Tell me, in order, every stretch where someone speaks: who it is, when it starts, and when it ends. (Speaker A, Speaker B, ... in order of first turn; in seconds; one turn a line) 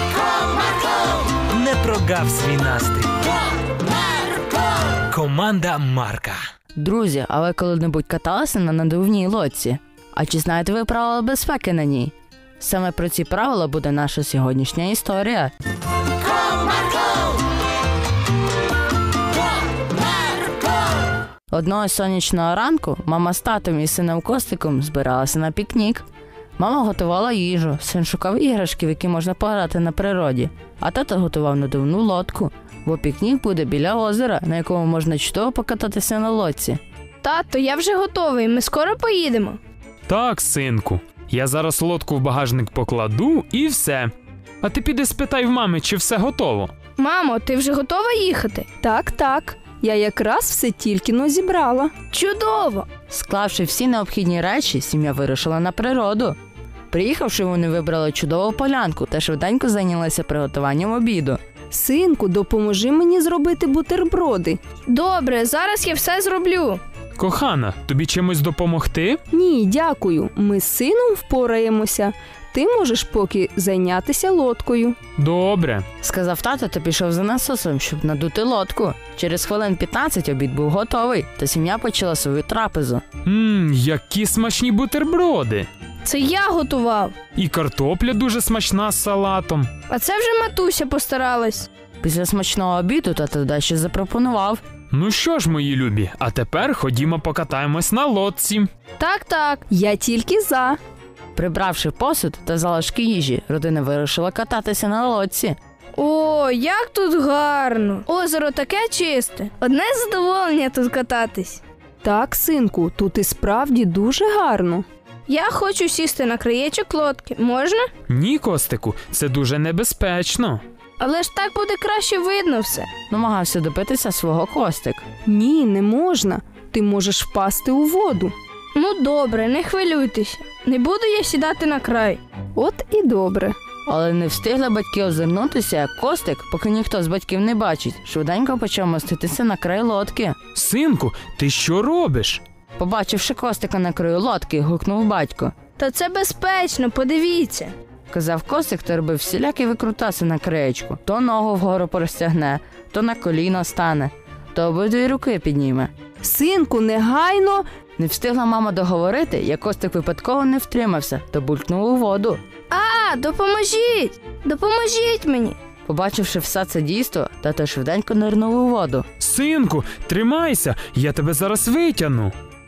Speaker A: 1.5-3.3
Speaker A: 5.1-6.4
Speaker B: 6.8-15.5
Speaker B: 21.5-26.1
Speaker B: 26.6-36.8
Speaker C: 37.2-39.6
Speaker D: 40.1-44.1
Speaker D: 44.6-46.7
Speaker C: 47.0-48.7
Speaker E: 48.8-51.9
Speaker C: 52.1-52.9
Speaker B: 53.1-56.4
Speaker B: 56.9-61.4
Speaker E: 61.7-64.6
Speaker C: 64.9-66.8
Speaker D: 67.2-69.2
Speaker E: 69.3-75.0
Speaker D: 75.2-75.8
Speaker B: 76.0-83.0
Speaker D: 83.2-85.7
Speaker C: 86.0-87.2
Speaker D: 87.3-89.7
Speaker C: 89.9-91.7
Speaker B: 92.0-94.6
Speaker D: 94.9-98.7
Speaker C: 99.0-99.6
Speaker E: 99.7-100.8
Speaker B: 101.4-105.6
Speaker C: 106.0-111.6
Speaker E: 112.0-114.8
Speaker C: 115.3-117.9
Speaker D: 118.1-120.6
Speaker C: 121.0-122.9
Speaker B: 123.1-125.0
Speaker E: 125.2-128.3
Speaker C: 128.7-132.2
Speaker E: 132.6-133.6
Speaker B: 133.9-140.4
Speaker D: 140.6-142.4
Speaker B: 142.8-145.5
Speaker C: 145.8-147.7
Speaker B: 148.1-155.9
Speaker E: 156.2-157.7
Speaker B: 158.0-162.4
Speaker C: 162.7-165.6
Speaker B: 165.9-169.1
Speaker D: 169.2-172.3